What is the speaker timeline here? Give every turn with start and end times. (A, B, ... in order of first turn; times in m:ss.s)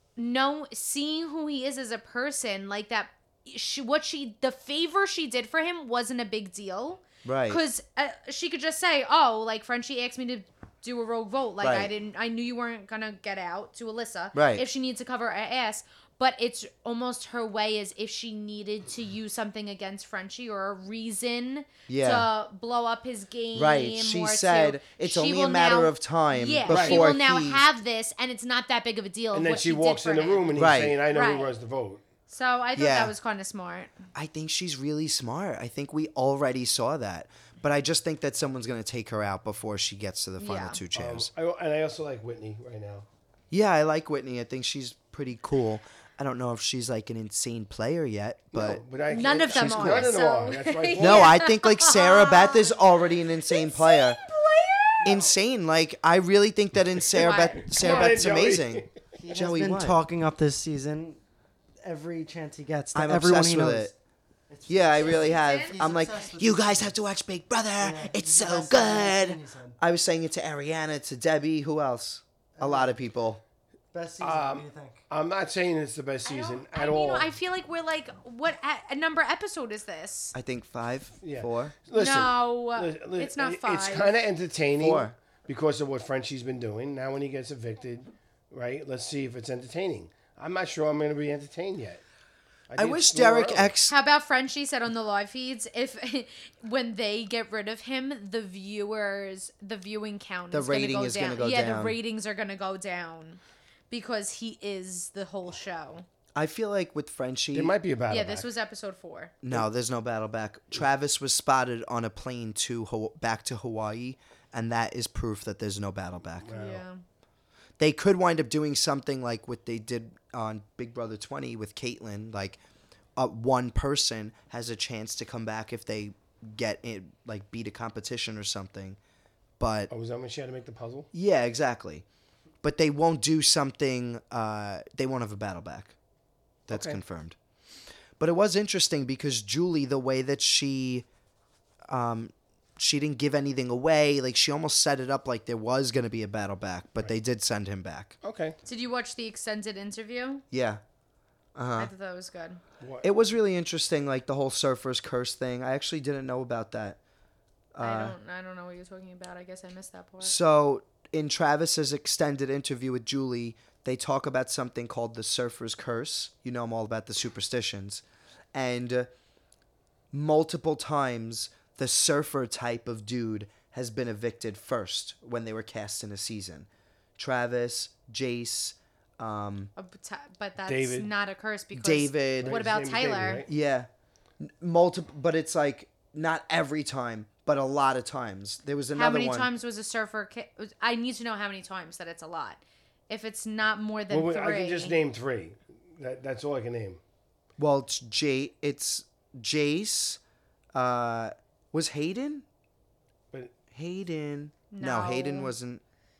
0:00.2-0:30.6 A
0:07.2-0:07.6 B
0:11.6-0:11.9 B
0:14.3-0:14.6 B
0:21.9-0:22.3 B
0:23.6-0:27.6 B
0:26.7-0:27.0 C
0:29.3-0:32.0 C
0:30.6-0:31.0 B
0:31.1-0:31.5 A
0:32.3-0:34.1 A
0:32.8-0:33.1 B
0:34.1-0:41.3 B
0:40.4-0:40.8 A
0:41.0-0:43.1 C
0:43.5-0:48.8 B
0:48.5-0:51.3 C
0:49.1-0:52.8 A
0:49.5-0:50.1 B
0:51.0-0:54.2 B
0:53.5-0:55.1 A
0:55.0-1:00.0 B
0:57.2-0:58.9 C
0:57.2-0:58.2 A
0:59.2-1:01.2 D
1:01.8-1:03.9 D
1:02.9-1:03.9 B
1:04.5-1:07.0 D
1:04.7-1:13.4 B
1:05.0-1:06.3 A
1:07.8-1:09.8 D
1:12.6-1:12.9 D
1:13.9-1:15.0 D
1:14.2-1:17.3 C
1:16.2-1:20.4 A
1:20.3-1:21.7 B
1:21.2-1:32.0 C
1:22.0-1:24.2 A
1:24.8-1:25.1 B
1:32.7-1:33.7 C
1:32.8-1:34.0 B
1:33.9-1:46.1 A
1:40.5-1:42.0 B
1:46.4-1:47.7 B
1:47.5-1:48.5 C
1:48.1-1:49.3 A
1:49.4-1:56.5 B
1:56.4-1:56.8 C
1:56.5-1:57.0 A
1:57.8-2:02.6 B
2:03.2-2:09.0 B
2:09.6-2:09.9 B
2:09.9-2:11.1 C
2:11.1-2:12.0 B
2:12.6-2:16.0 B
2:16.7-2:17.4 B
2:16.7-2:17.0 C
2:18.2-2:21.1 B
2:21.9-2:28.2 B
2:28.2-2:28.6 C
2:28.7-2:30.4 A
2:30.5-2:30.8 B
2:31.6-2:31.9 B
2:31.8-2:32.6 A
2:32.8-2:33.1 C
2:33.0-2:37.0 B
2:37.7-2:38.2 B
2:37.8-2:40.4 A
2:40.2-2:48.0 B
2:48.5-2:49.1 B
2:50.1-2:59.7 B
2:59.8-3:03.5 A
3:00.7-3:01.1 C
3:01.7-3:02.6 B
3:02.4-3:03.5 C
3:03.5-3:03.9 B
3:04.4-3:09.5 B
3:08.9-3:15.0 A
3:14.1-3:17.0 C
3:17.6-3:20.2 B
3:20.7-3:22.4 B
3:23.7-3:25.8 B
3:24.7-3:25.6 A